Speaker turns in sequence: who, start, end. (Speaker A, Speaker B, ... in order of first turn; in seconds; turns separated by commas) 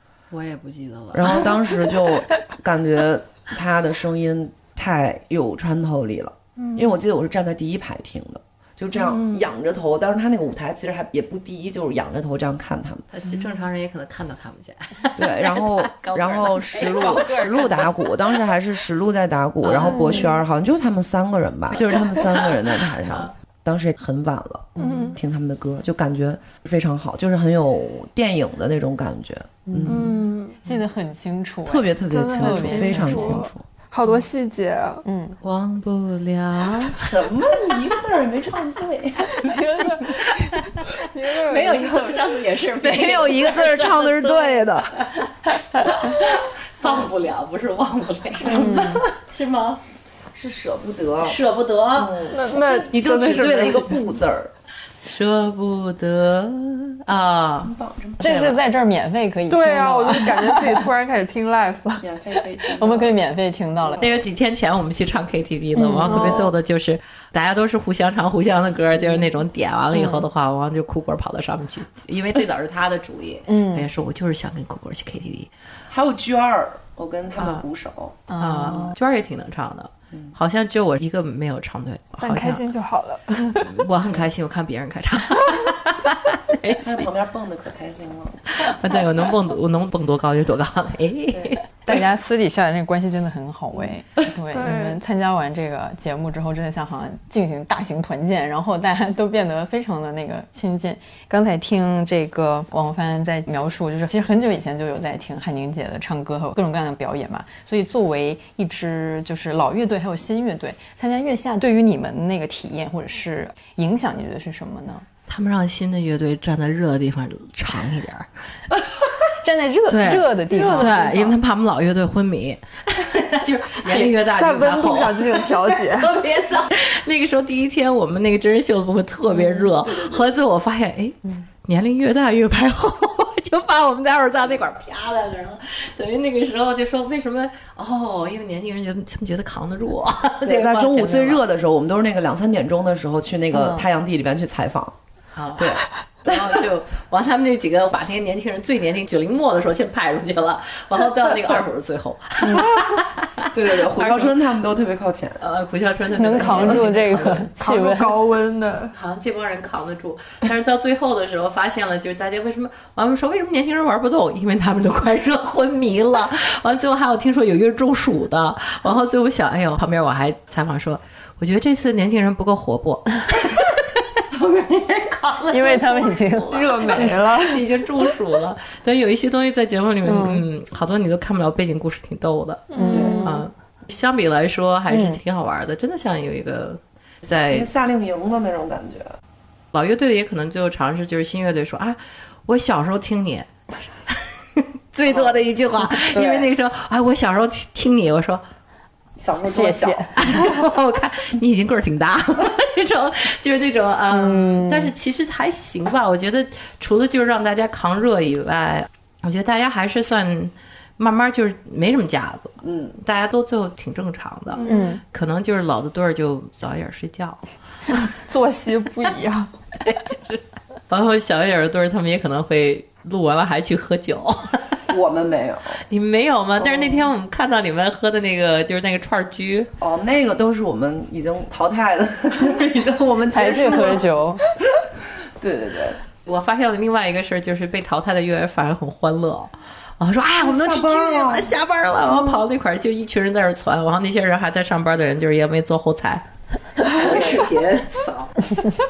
Speaker A: 0.3-1.6, Speaker B: 1.1-13.1, Speaker C: 9.0-9.4, Speaker A: 13.1-18.1, Speaker B: 15.2-30.2, Speaker A: 19.6-20.3, Speaker A: 21.7-23.3, Speaker A: 24.8-25.2, Speaker C: 24.8-25.2, Speaker D: 29.7-33.5, Speaker C: 29.9-30.6, Speaker B: 31.6-33.6, Speaker C: 32.1-35.0, Speaker D: 35.0-35.4, Speaker A: 35.4-37.2, Speaker B: 36.9-39.6, Speaker C: 39.3-42.2, Speaker A: 40.8-49.8, Speaker B: 42.8-44.9, Speaker B: 46.8-47.2, Speaker D: 48.4-49.0, Speaker B: 48.4-48.9, Speaker B: 50.3-51.4, Speaker A: 51.2-53.6, Speaker B: 51.9-54.5, Speaker C: 52.3-53.9, Speaker A: 55.0-58.6, Speaker B: 57.6-58.5, Speaker D: 58.2-60.8, Speaker C: 59.5-62.0, Speaker B: 62.0-63.2, Speaker D: 62.8-64.1, Speaker B: 63.8-64.2, Speaker A: 64.0-75.5, Speaker D: 65.7-66.5, Speaker D: 69.9-70.2, Speaker D: 73.5-73.8, Speaker B: 75.9-78.2, Speaker A: 77.4-77.6, Speaker D: 78.3-78.9, Speaker A: 78.3-82.6, Speaker C: 82.2-83.8, Speaker A: 83.6-87.0, Speaker B: 86.8-88.6, Speaker A: 88.5-91.7, Speaker B: 91.3-91.6, Speaker D: 91.8-115.0, Speaker C: 94.5-95.0, Speaker A: 115.3-118.3, Speaker D: 119.4-121.4, Speaker A: 119.9-141.4, Speaker C: 120.5-121.1, Speaker C: 124.2-126.2, Speaker B: 129.3-130.3, Speaker B: 140.4-144.9, Speaker D: 143.5-143.8, Speaker A: 145.3-154.5, Speaker B: 145.6-146.4, Speaker D: 152.4-152.7, Speaker B: 153.5-155.4, Speaker A: 155.4-157.5, Speaker D: 156.2-158.2, Speaker C: 156.5-156.9, Speaker C: 157.6-158.9, Speaker A: 158.9-187.7, Speaker D: 175.5-177.1, Speaker C: 176.5-177.6, Speaker C: 182.7-183.4, Speaker D: 182.7-183.4, Speaker B: 182.9-183.2, Speaker D: 184.9-185.2, Speaker B: 187.5-189.1, Speaker A: 189.7-193.5, Speaker A: 194.1-198.4, Speaker B: 195.1-195.4, Speaker B: 196.0-196.5, Speaker B: 199.2-200.3, Speaker D: 199.4-200.3, Speaker A: 200.2-217.4, Speaker D: 204.1-204.9, Speaker B: 212.6-212.9, Speaker C: 214.5-214.9, Speaker D: 214.6-215.0, Speaker C: 218.1-219.5, Speaker A: 219.8-224.8, Speaker B: 224.9-225.8, Speaker A: 225.9-229.7, Speaker B: 226.6-227.1, Speaker B: 229.8-234.1, Speaker A: 232.8-234.0, Speaker D: 233.3-234.4, Speaker B: 234.8-236.0, Speaker A: 236.2-248.4, Speaker B: 240.4-241.5, Speaker B: 246.9-247.5